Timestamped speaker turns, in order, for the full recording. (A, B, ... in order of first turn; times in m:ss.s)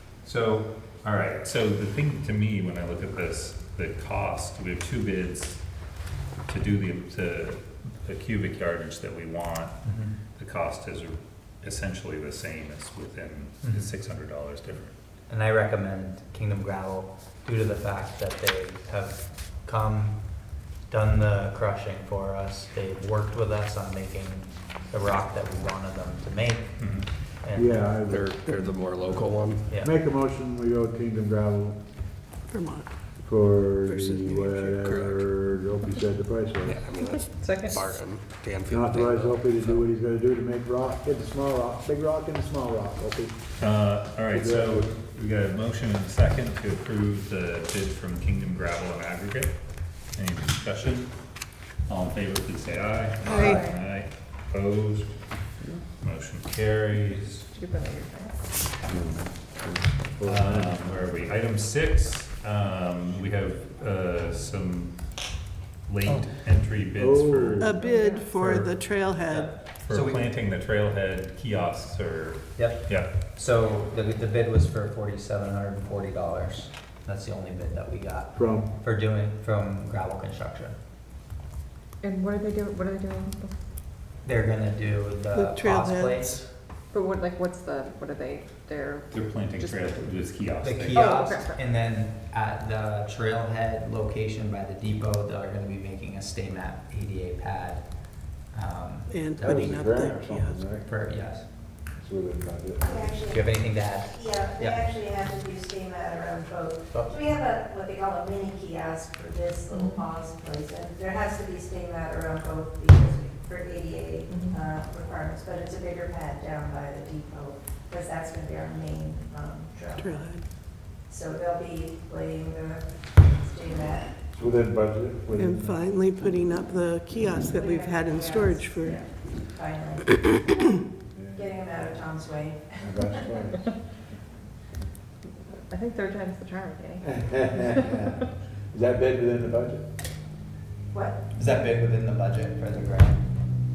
0:00.2-0:05.8 A
0:06.5-0:14.9 A
0:09.8-0:10.1 B
0:13.6-0:13.9 B
0:15.3-0:20.2 B
0:20.9-0:27.9 B
0:26.8-0:27.1 A
0:27.5-0:28.3 C
0:28.1-0:29.7 D
0:29.5-0:29.9 B
0:29.8-0:31.8 C
0:32.5-0:32.9 E
0:33.2-0:36.8 C
0:33.9-0:35.0 E
0:36.6-0:39.8 D
0:37.0-0:38.0 F
0:38.7-0:43.4 C
0:43.6-0:51.2 A
0:44.3-0:44.9 C
0:51.8-0:55.1 A
0:53.2-0:53.6 E
0:53.4-0:53.8 F
0:56.0-0:57.4 A
0:57.3-0:58.4 F
0:58.9-1:01.1 C
1:00.2-1:05.1 A
1:05.8-1:07.7 A
1:06.9-1:07.9 C
1:07.6-1:09.6 E
1:07.8-1:08.4 F
1:08.4-1:08.7 C
1:09.3-1:10.3 B
1:09.8-1:13.1 A
1:12.6-1:20.8 B
1:18.3-1:18.7 C
1:22.0-1:23.5 F
1:24.2-1:26.4 B
1:25.3-1:26.5 E
1:26.9-1:30.1 F
1:29.1-1:31.3 A
1:30.6-1:37.8 B
1:30.9-1:31.6 F
1:38.5-1:39.6 B
1:39.1-1:40.6 E
1:39.4-1:40.9 C
1:40.8-1:41.4 B
1:41.9-1:43.1 C
1:42.8-1:43.4 G
1:43.3-1:44.9 B
1:44.1-2:00.2 G
1:46.9-1:47.4 B
1:49.7-1:50.1 F
1:54.3-1:54.6 F
1:59.9-2:00.5 E
2:01.1-2:04.1 G
2:04.3-2:05.8 C
2:05.3-2:09.0 E
2:07.5-2:10.1 G
2:11.1-2:11.6 C
2:11.4-2:12.8 G
2:12.8-2:13.7 C
2:15.5-2:18.0 F
2:17.1-2:19.8 C
2:20.9-2:21.2 G
2:21.3-2:23.2 B